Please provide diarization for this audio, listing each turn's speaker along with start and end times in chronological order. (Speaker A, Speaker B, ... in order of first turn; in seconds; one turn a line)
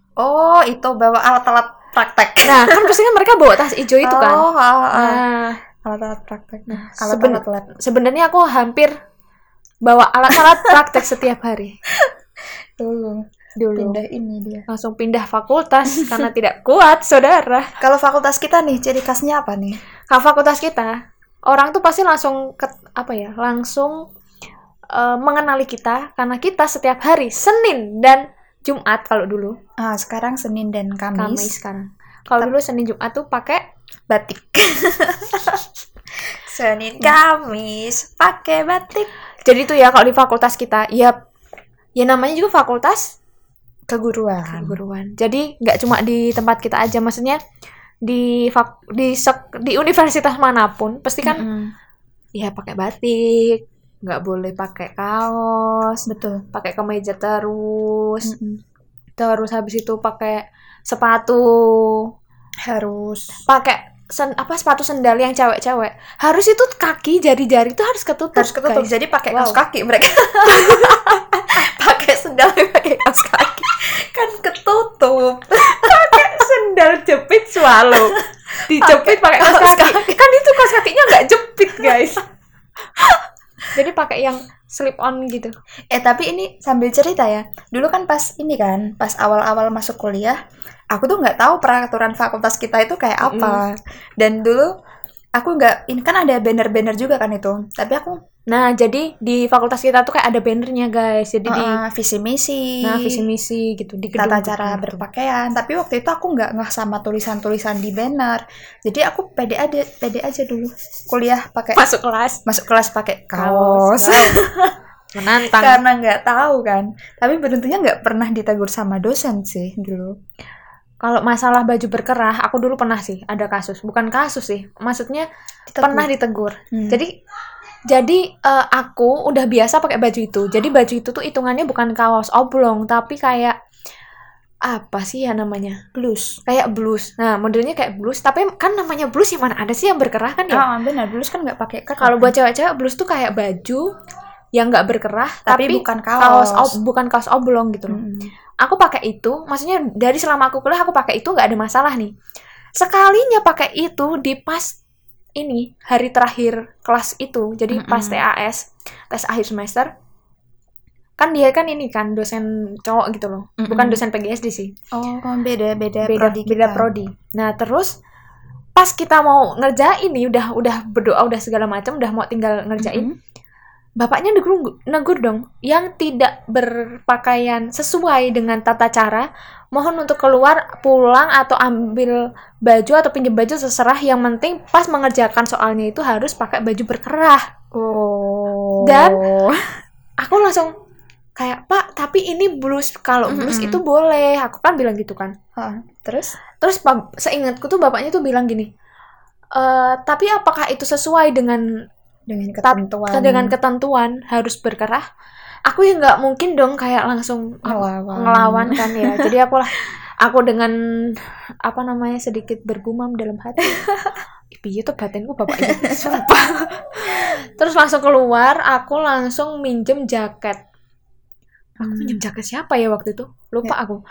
Speaker A: 0.2-3.0
Speaker B: 2.4-5.6
Speaker A: 4.0-5.2
Speaker A: 5.8-7.7
Speaker B: 6.7-8.9
Speaker B: 9.8-11.8
Speaker A: 10.3-10.7
Speaker A: 12.8-14.7
Speaker B: 13.6-14.0
Speaker B: 14.7-17.7
Speaker A: 17.8-19.8
Speaker B: 20.1-20.9
Speaker B: 21.4-24.1
Speaker B: 24.9-29.6
Speaker A: 29.8-31.5
Speaker B: 31.1-33.6
Speaker A: 34.1-35.7
Speaker A: 36.2-39.1
Speaker B: 39.4-41.2
Speaker B: 42.0-43.2
Speaker A: 43.9-44.8
Speaker B: 44.5-47.4
Speaker B: 48.0-51.4
Speaker A: 51.2-51.7
Speaker B: 52.3-58.3
Speaker A: 56.1-56.4
Speaker A: 58.2-58.6
Speaker B: 59.2-62.1
Speaker A: 62.6-63.3
Speaker B: 63.5-69.6
Speaker A: 68.3-76.3
Speaker B: 70.5-71.0
Speaker B: 75.6-82.2
Speaker A: 77.9-80.2
Speaker A: 81.8-82.1
Speaker B: 83.7-85.5
Speaker A: 85.9-90.4
Speaker A: 90.9-94.7
Speaker B: 93.2-93.6
Speaker A: 95.4-98.2
Speaker B: 98.5-101.8
Speaker A: 101.5-103.3
Speaker B: 102.8-105.0
Speaker A: 104.1-111.8
Speaker B: 111.7-112.4
Speaker A: 112.5-114.8
Speaker B: 113.3-114.4
Speaker B: 115.1-115.8
Speaker A: 115.5-120.1
Speaker B: 121.0-125.2
Speaker A: 125.7-126.1
Speaker B: 125.8-127.1
Speaker A: 126.7-127.0
Speaker B: 127.9-133.5
Speaker B: 134.6-135.8
Speaker A: 135.9-136.4
Speaker B: 136.4-140.6
Speaker A: 140.5-142.3
Speaker B: 142.0-143.9
Speaker B: 144.5-148.0
Speaker A: 145.5-146.8
Speaker A: 147.9-148.3
Speaker B: 148.6-152.1
Speaker B: 152.8-154.8
Speaker B: 155.4-159.9
Speaker A: 157.7-158.2
Speaker B: 161.2-164.7
Speaker A: 163.6-164.0
Speaker A: 164.9-166.9
Speaker B: 166.0-167.9
Speaker B: 168.8-173.1
Speaker A: 172.8-173.2
Speaker B: 174.0-187.5
Speaker A: 187.7-189.7
Speaker B: 188.8-189.3
Speaker B: 190.2-190.7
Speaker B: 191.4-195.3
Speaker A: 193.3-193.8
Speaker A: 195.6-196.3
Speaker B: 196.6-198.7
Speaker B: 199.5-201.6
Speaker A: 202.3-203.5
Speaker B: 202.6-205.0
Speaker B: 205.7-213.8
Speaker A: 207.7-209.3
Speaker A: 213.8-214.1
Speaker B: 214.5-220.6
Speaker A: 215.6-216.2
Speaker B: 221.8-224.0
Speaker A: 221.8-222.2